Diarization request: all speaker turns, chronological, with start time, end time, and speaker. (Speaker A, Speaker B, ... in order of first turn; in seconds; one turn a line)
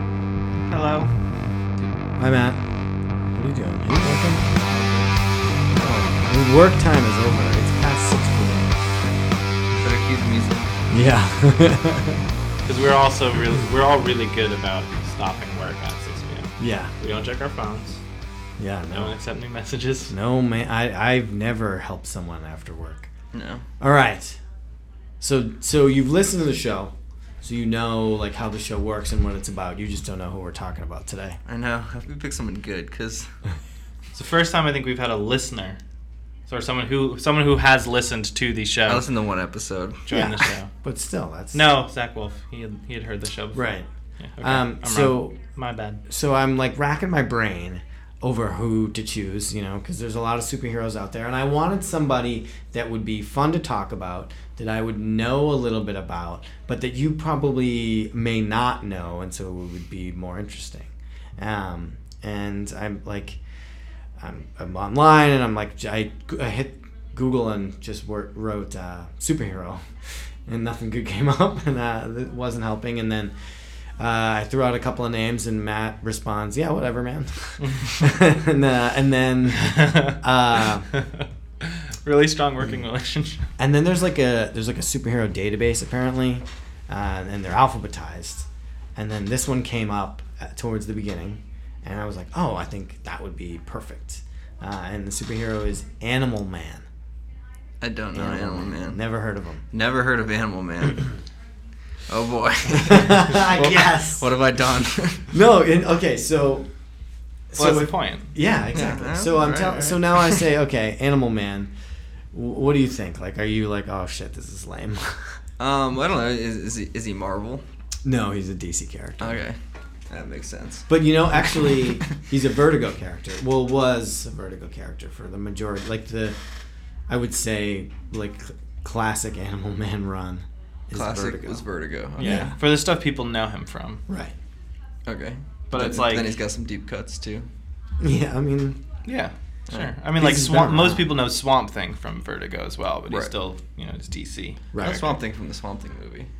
Speaker A: 0.7-1.1
Speaker B: 2.2-2.6
Speaker B: 3.3-4.5
Speaker C: 4.7-5.1
Speaker B: 5.7-8.8
Speaker C: 9.8-10.7
Speaker B: 10.9-12.2
Speaker A: 12.6-18.0
Speaker B: 16.6-16.9
Speaker B: 18.6-19.1
Speaker A: 18.9-20.1
Speaker B: 20.1-23.1
Speaker C: 23.3-23.6
Speaker B: 23.8-24.4
Speaker B: 25.2-31.4
Speaker C: 31.5-33.3
Speaker A: 34.1-35.8
Speaker A: 36.5-39.1
Speaker C: 38.9-40.0
Speaker A: 40.1-40.7
Speaker B: 40.1-41.6
Speaker A: 41.5-43.6
Speaker B: 43.5-43.9
Speaker A: 44.2-46.0
Speaker B: 44.4-45.3
Speaker B: 46.1-63.4
Speaker B: 64.2-69.9
Speaker B: 70.5-73.3
Speaker B: 74.0-80.9
Speaker A: 77.6-77.9
Speaker A: 79.6-80.2
Speaker A: 80.9-83.5
Speaker B: 83.6-96.8
Speaker C: 97.8-99.0
Speaker B: 98.1-99.6
Speaker C: 99.7-101.1
Speaker C: 102.1-105.3
Speaker B: 102.8-104.3
Speaker B: 105.3-106.7
Speaker B: 107.5-111.7
Speaker A: 107.5-108.3
Speaker C: 108.7-110.4
Speaker B: 112.3-115.4
Speaker C: 115.6-117.6
Speaker B: 118.0-119.4
Speaker C: 119.2-119.6
Speaker C: 120.1-120.9
Speaker B: 120.9-126.3
Speaker B: 127.1-131.6
Speaker C: 130.9-132.5
Speaker B: 132.2-132.6
Speaker A: 132.2-134.0
Speaker B: 134.1-134.3
Speaker C: 135.1-137.5
Speaker A: 135.7-136.3
Speaker B: 138.0-138.8
Speaker A: 139.0-144.6
Speaker B: 140.2-141.1
Speaker B: 144.7-145.2
Speaker C: 144.8-146.3